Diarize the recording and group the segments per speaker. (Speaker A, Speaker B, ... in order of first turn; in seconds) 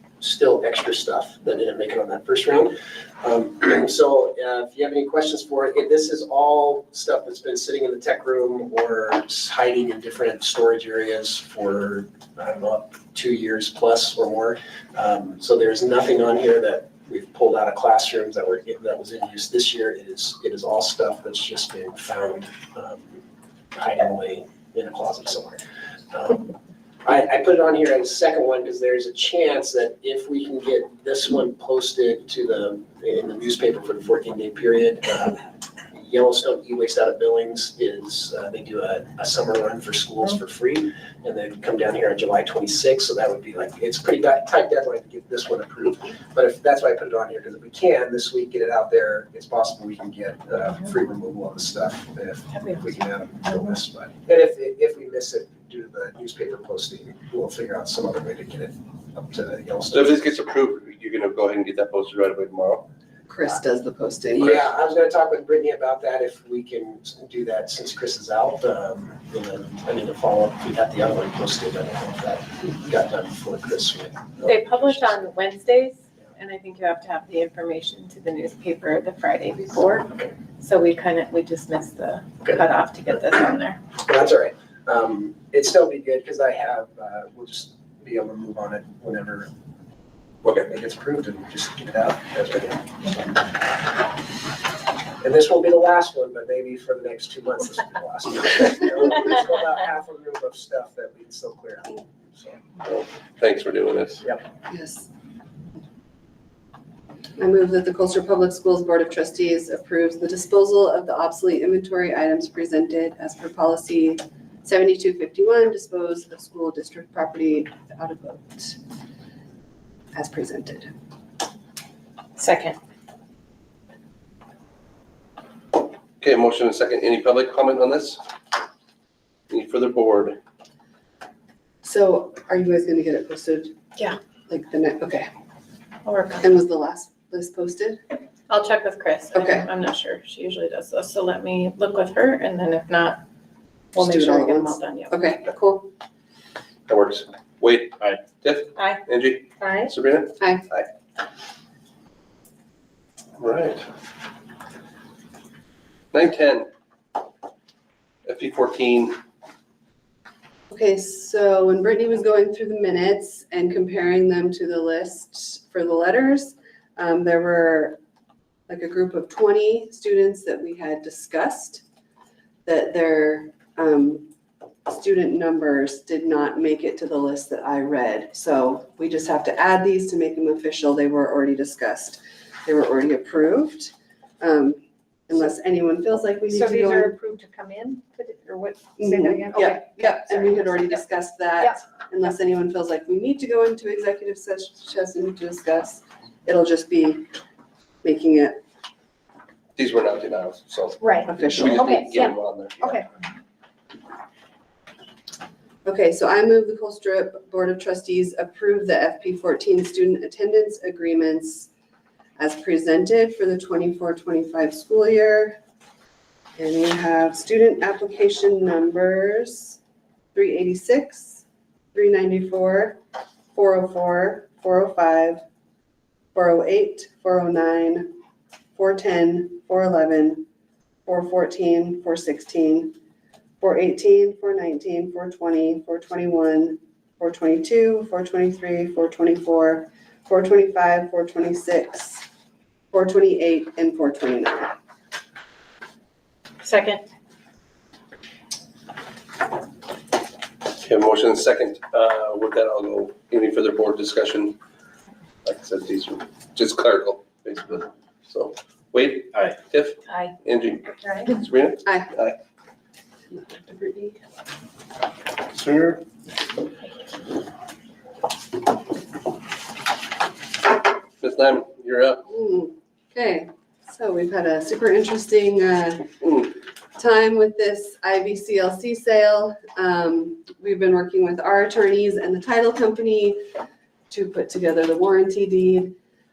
Speaker A: 0.2-23.2, 23.7-25.6, 26.1-26.5, 27.0-60.2, 64.3-75.1, 84.0-89.5, 90.4-93.5, 95.2-102.6
Speaker B: 59.9-62.9, 102.8-104.2, 126.2-128.2, 129.5-130.4, 146.9-150.9, 153.4-153.8, 156.1-156.7, 158.3-159.2, 199.8-203.0, 250.8-254.6, 255.4-262.4, 265.5-266.0, 271.2-272.2
Speaker C: 63.3-64.6, 104.7-105.1, 107.4-118.8, 120.1-120.9, 131.8-133.7, 134.5-135.3, 136.4-138.0, 139.3-139.7, 144.0-145.9, 150.4-150.7, 160.7-168.0, 168.7-171.8, 172.7-174.3, 174.9-187.2, 189.0-197.3, 198.0-198.6, 201.2-202.0, 205.8-211.7, 212.4-215.6, 216.6-219.8, 220.3-223.0, 223.5-225.4, 226.3-228.1, 228.8-230.4, 231.1-233.0, 233.6-242.2, 242.9-244.8, 261.9-262.1, 263.3-264.2, 272.3-283.4, 284.1-285.9
Speaker D: 74.4-83.8, 122.4-122.8, 136.1-136.5, 138.5-143.2, 143.9-145.2, 149.6-149.9, 246.6-247.1
Speaker E: 186.5-190.7, 201.0-203.0